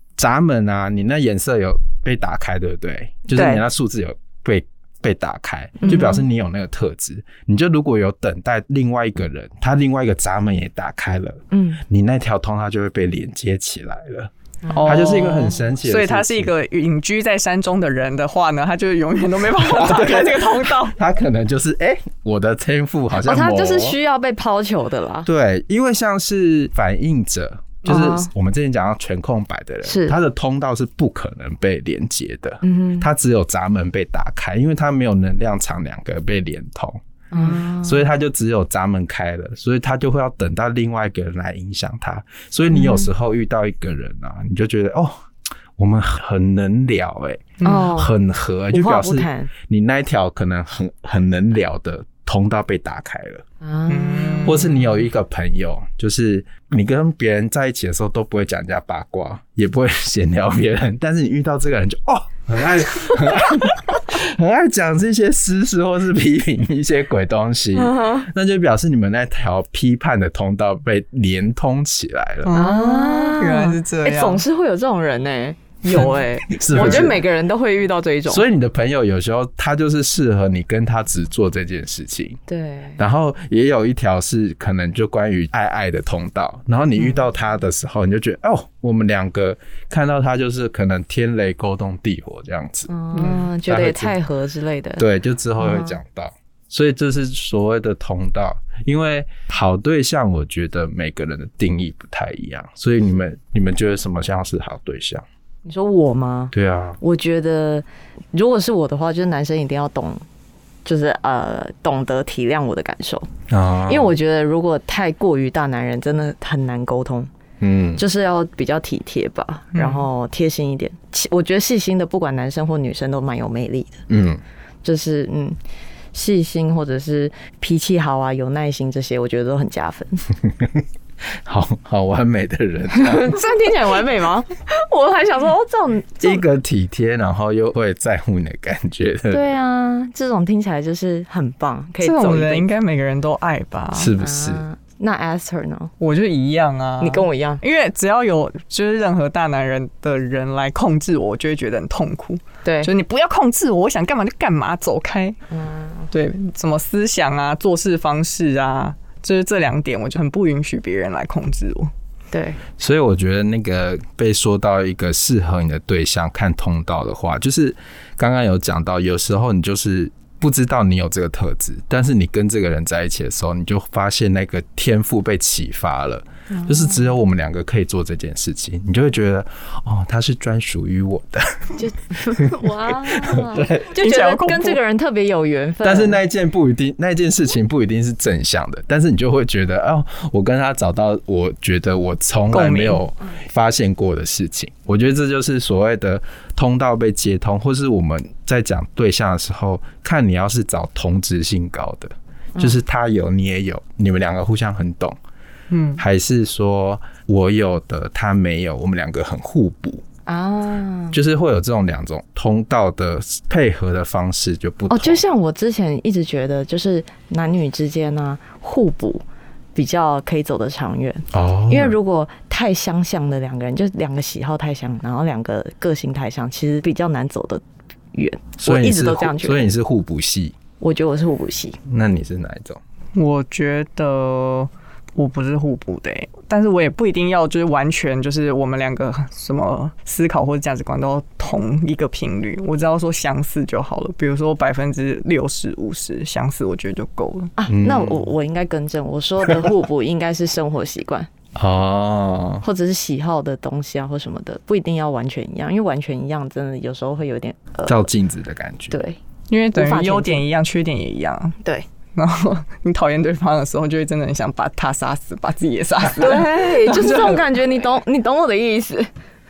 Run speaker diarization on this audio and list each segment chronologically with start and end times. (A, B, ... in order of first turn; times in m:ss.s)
0:00.2-0:14.3 A
0:03.3-0:03.6 B
0:05.8-0:06.2 B
0:11.5-0:11.8 B
0:14.6-0:15.1 B
0:14.7-0:21.0 C
0:14.8-0:16.5 A
0:19.6-0:24.0 A
0:23.2-0:25.3 B
0:25.2-0:45.1 A
0:27.8-0:28.3 B
0:29.8-0:30.2 B
0:32.6-0:33.1 B
0:37.3-0:38.1 B
0:42.7-0:43.1 B
0:45.8-0:53.4 A
0:47.6-0:47.9 C
0:47.6-0:48.1 B
0:48.7-0:49.5 B
0:53.6-0:54.7 B
0:53.9-0:54.8 C
0:54.4-1:12.6 A
1:07.7-1:08.3 B
1:12.4-1:14.4 C
1:12.5-1:18.4 B
1:15.9-1:16.2 C
1:16.5-1:17.2 A
1:16.7-1:17.1 C
1:18.3-1:22.4 A
1:22.5-1:23.0 B
1:23.0-1:32.9 A
1:32.9-1:35.0 B
1:33.1-1:33.5 C
1:33.7-1:34.1 A
1:35.0-1:45.2 A
1:35.6-1:36.0 B
1:45.6-1:50.2 B
1:46.5-1:47.0 A
1:50.8-1:53.3 B
1:53.5-1:54.1 A
1:53.8-1:57.3 B
1:57.6-1:58.0 A
1:58.0-2:04.0 B
1:59.7-2:00.0 C
2:04.1-2:04.4 A
2:04.8-2:05.6 B
2:06.1-2:10.2 B
2:10.4-2:10.8 A
2:11.4-2:13.4 A
2:12.9-2:16.4 B
2:16.2-2:19.5 A
2:19.3-2:22.7 B
2:22.0-2:24.1 C
2:23.9-2:24.6 A
2:24.2-2:25.9 B
2:26.0-2:35.4 C
2:27.0-2:27.6 B
2:32.6-2:32.9 B
2:35.5-2:36.1 B
2:36.1-2:41.9 C
2:42.3-2:42.6 B
2:42.8-3:03.9 A
2:56.5-2:57.0 B
3:01.8-3:06.2 B
3:03.9-3:04.8 C
3:05.8-3:25.2 A
3:12.5-3:13.0 C
3:25.7-3:26.0 C
3:26.0-3:30.0 A
3:30.3-3:31.2 B
3:31.1-3:35.2 A
3:34.9-3:39.2 B
3:39.8-3:47.6 B
3:41.3-3:42.0 A
3:48.1-3:49.7 B
3:48.6-3:50.6 A
3:50.8-3:51.8 B
3:51.8-3:52.8 A
3:53.1-4:07.5 C
4:07.6-4:11.3 B
4:07.7-4:08.2 A
4:11.6-4:12.6 A
4:12.6-4:18.1 B
4:17.8-4:19.0 A
4:18.9-4:19.2 B
4:19.5-4:21.6 C
4:19.7-4:20.4 B
4:22.1-4:27.5 C
4:26.2-4:29.1 B